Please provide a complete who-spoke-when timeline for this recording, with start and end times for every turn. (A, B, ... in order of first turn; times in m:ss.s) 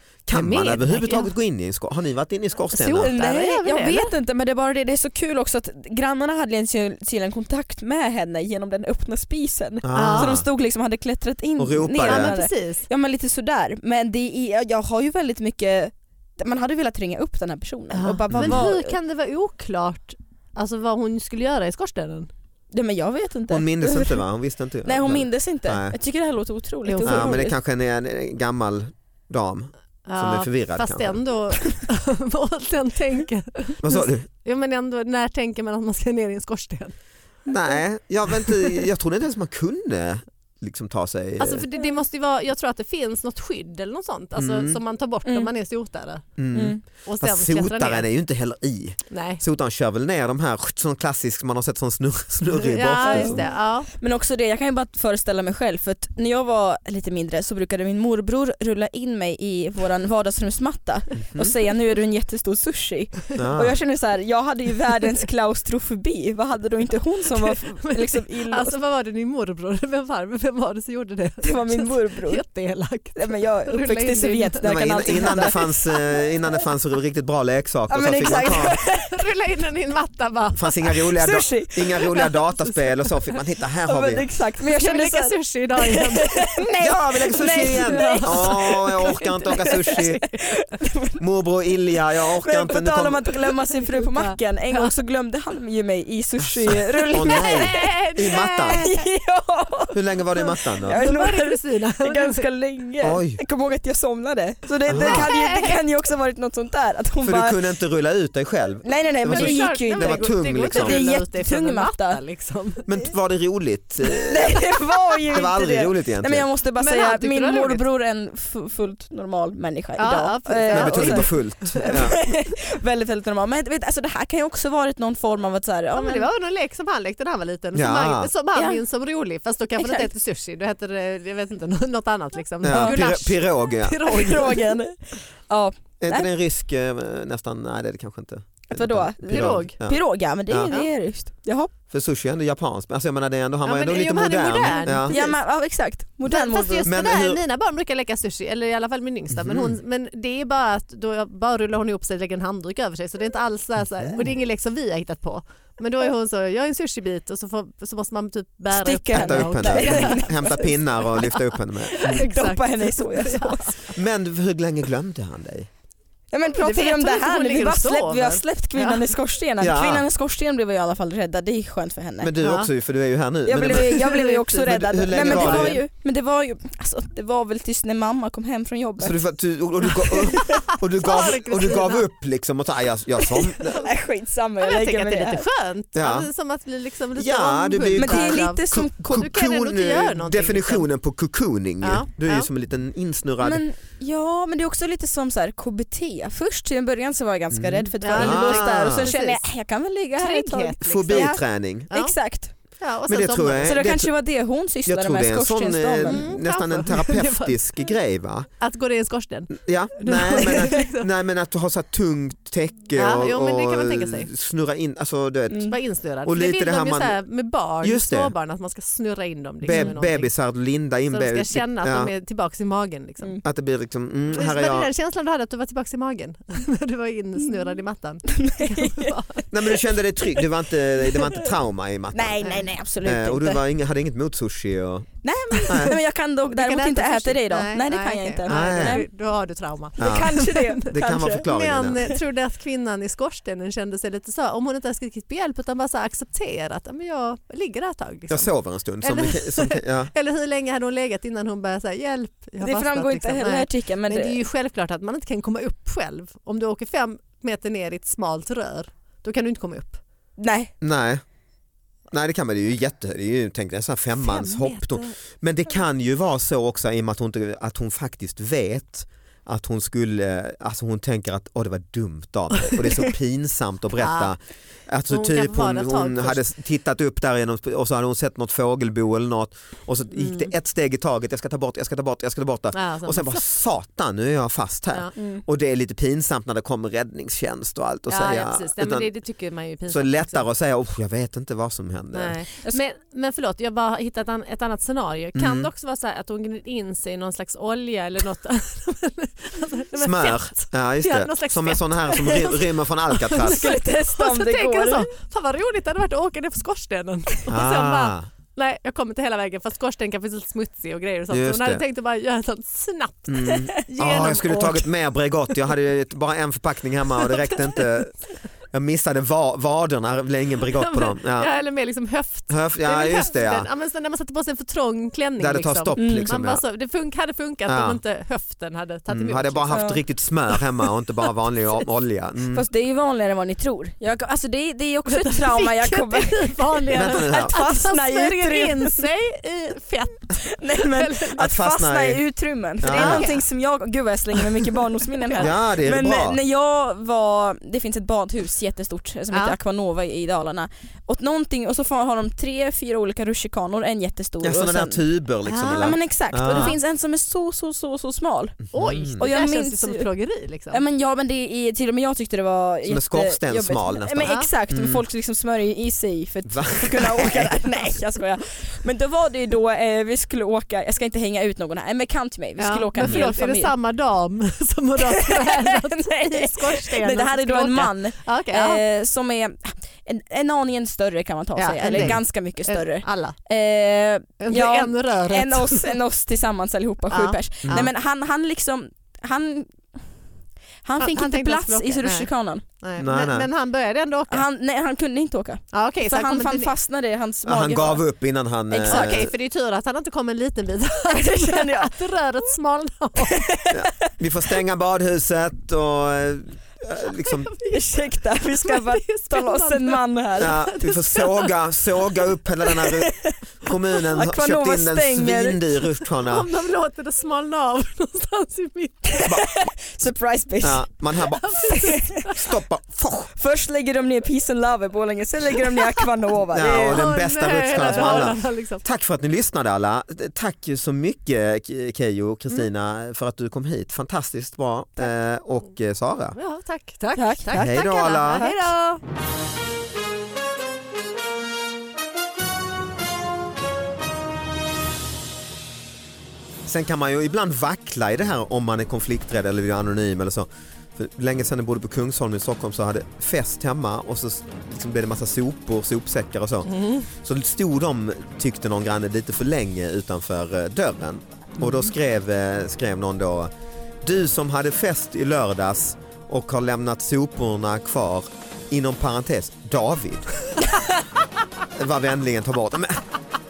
0:00.3-0:03.1 A
0:00.3-0:01.3 B
0:02.7-0:04.1 B
0:02.9-0:18.9 C
0:09.8-0:10.4 A
0:09.9-0:10.4 B
0:11.6-0:12.3 A
0:12.1-0:12.9 B
0:17.9-0:22.3 B
0:18.3-0:18.7 A
0:22.7-0:24.2 C
0:23.5-0:26.0 A
0:24.8-0:27.5 C
0:26.9-0:27.4 B
0:27.1-0:31.2 A
0:30.1-0:36.9 B
0:33.8-0:34.2 A
0:37.5-0:41.6 A
0:41.4-0:46.4 B
0:44.4-0:44.8 A
0:46.4-0:53.4 A
0:46.5-0:46.8 C
0:47.0-0:48.1 B
0:49.1-0:49.4 B
0:52.6-0:53.9 B
0:53.0-1:08.7 C
1:03.4-1:03.8 A
1:07.4-1:15.8 B
1:11.4-1:12.4 C
1:13.1-1:15.6 C
1:14.6-1:18.8 A
1:17.9-1:19.2 C
1:18.4-1:21.0 B
1:20.6-1:24.2 A
1:21.1-1:22.3 C
1:22.6-1:22.9 B
1:23.9-1:31.2 C
1:24.6-1:26.6 B
1:26.8-1:30.2 A
1:27.6-1:30.5 B
1:31.2-1:33.3 A
1:32.4-1:37.9 C
1:34.0-1:34.9 B
1:36.4-1:38.9 A
1:37.2-1:39.0 B
1:38.6-1:47.6 C
1:39.9-1:41.0 A
1:40.8-1:42.5 B
1:43.0-1:43.4 A
1:44.9-1:45.3 A
1:44.9-1:45.7 B
1:47.2-1:51.0 A
1:48.8-1:52.2 C
1:49.2-1:52.9 B
1:52.9-1:54.7 A
1:54.1-2:06.3 C
1:55.3-1:56.4 A
1:56.8-1:57.8 B
2:00.0-2:02.2 B
2:00.7-2:02.2 A
2:05.9-2:14.7 B
2:07.7-2:08.3 A
2:08.6-2:08.8 C
2:09.8-2:10.1 C
2:12.6-2:14.1 A
2:12.7-2:13.0 C
2:14.1-2:16.3 C
2:16.0-2:20.8 A
2:18.7-2:21.7 C
2:19.3-2:19.8 B
2:21.9-2:25.2 A
2:23.6-2:25.4 B
2:25.1-2:26.9 C
2:26.3-2:41.4 B
2:26.8-2:27.4 A
2:29.3-2:29.8 A
2:38.7-2:41.3 C
2:39.1-2:42.2 A
2:41.9-2:43.8 C
2:42.0-2:43.9 B
2:43.9-2:45.7 A
2:46.3-2:52.3 C
2:46.6-2:49.0 B
2:49.6-2:50.0 A
2:52.2-2:55.8 A
2:52.4-2:52.7 B
2:53.4-2:59.2 C
2:54.0-2:54.4 B
2:55.1-2:55.8 B
2:59.0-3:03.9 A
3:00.1-3:02.1 B
3:00.3-3:00.6 C
3:03.2-3:05.4 C
3:04.6-3:10.9 B
3:05.9-3:06.3 A
3:07.2-3:13.6 A
3:08.0-3:08.9 C
3:11.8-3:12.5 B
3:13.4-3:22.5 C
3:17.5-3:19.1 A
3:18.0-3:19.4 B
3:20.2-3:21.4 B
3:20.8-3:21.9 A
3:22.8-3:23.8 B
3:23.1-3:24.1 A
3:23.6-3:26.2 C
3:24.9-3:28.5 A
3:26.1-3:27.7 B
3:28.6-3:31.1 B
3:29.5-3:37.2 A
3:32.9-3:34.3 B
3:35.6-3:40.3 B
3:37.8-3:38.3 A
3:39.6-3:42.1 A
3:41.1-3:43.4 B
3:43.4-3:44.9 A
3:44.3-3:49.5 B
3:48.3-3:49.1 C
3:49.5-3:56.0 A
3:52.1-3:53.6 C
3:55.2-3:59.1 C
3:56.5-4:00.9 B
3:58.5-3:59.0 A
4:00.0-4:01.5 C
4:00.0-4:02.0 A
4:01.4-4:08.5 B
4:08.3-4:10.1 A
4:09.0-4:20.0 B
4:12.6-4:14.4 C
4:20.4-4:20.7 C
4:20.8-4:21.2 A
4:22.1-4:49.1 A
4:24.2-4:25.1 B
4:32.7-4:33.0 B
4:34.0-4:34.3 B
4:35.1-4:36.4 B
4:40.2-4:40.5 B
4:42.7-4:43.4 B
4:45.2-4:45.4 C
4:48.1-4:50.4 B
4:49.9-4:52.4 A
4:52.1-5:02.6 B
4:55.4-4:55.7 A
5:00.0-5:03.7 A
5:03.2-5:15.0 B
5:03.4-5:05.1 C
5:07.5-5:08.3 A
5:11.3-5:11.8 A
5:13.3-5:18.2 A
5:17.3-5:17.6 B
5:18.7-5:21.5 A
5:20.7-5:29.9 B
5:22.5-5:23.7 A
5:25.4-5:26.6 A
5:26.0-5:26.3 C
5:27.7-5:28.0 A
5:29.1-5:32.6 A
5:29.7-5:30.0 C
5:32.5-5:39.1 C
5:35.1-5:41.4 B
5:36.9-5:37.6 A
5:40.3-5:55.0 C
5:41.4-5:42.2 A
5:42.8-5:43.3 A
5:42.9-5:43.4 B
5:45.4-5:46.4 A
5:49.3-5:49.6 B
5:54.4-5:56.8 A
5:55.5-5:55.9 B
5:55.6-6:00.1 C
5:56.5-5:56.8 B
5:58.7-5:59.2 A
5:58.7-6:00.8 B
6:00.7-6:13.7 C
6:02.8-6:05.0 A
6:04.2-6:04.5 B
6:06.5-6:07.6 A
6:12.6-6:18.8 B
6:13.0-6:13.3 A
6:15.0-6:29.8 C
6:21.6-6:23.4 B
6:21.9-6:22.2 A
6:24.4-6:26.0 B
6:27.1-6:27.9 B
6:30.8-6:32.6 C
6:31.0-6:34.4 B
6:33.0-6:33.5 A
6:34.3-6:38.0 C
6:35.7-6:36.7 B
6:37.4-6:39.3 A
6:38.7-6:39.3 C
6:38.9-6:43.5 B
6:41.1-6:41.9 C
6:43.2-6:44.1 C
6:43.7-6:47.5 A
6:47.6-6:50.6 C
6:48.4-6:51.5 B
6:50.4-6:56.4 A
6:53.0-6:53.4 C
6:54.0-6:55.6 C
6:56.2-6:59.3 B
6:59.1-7:00.8 C
6:59.2-6:59.5 A
7:00.6-7:03.3 A
7:01.3-7:02.4 B
7:01.7-7:02.3 C
7:03.4-7:07.1 C
7:06.5-7:16.4 A
7:06.9-7:08.8 B
7:07.8-7:08.3 C
7:16.4-7:19.0 B
7:17.2-7:18.7 C
7:17.5-7:18.6 A
7:26.6-7:43.5 A
7:36.7-7:37.0 B
7:44.0-7:50.3 A
7:51.7-7:53.0 A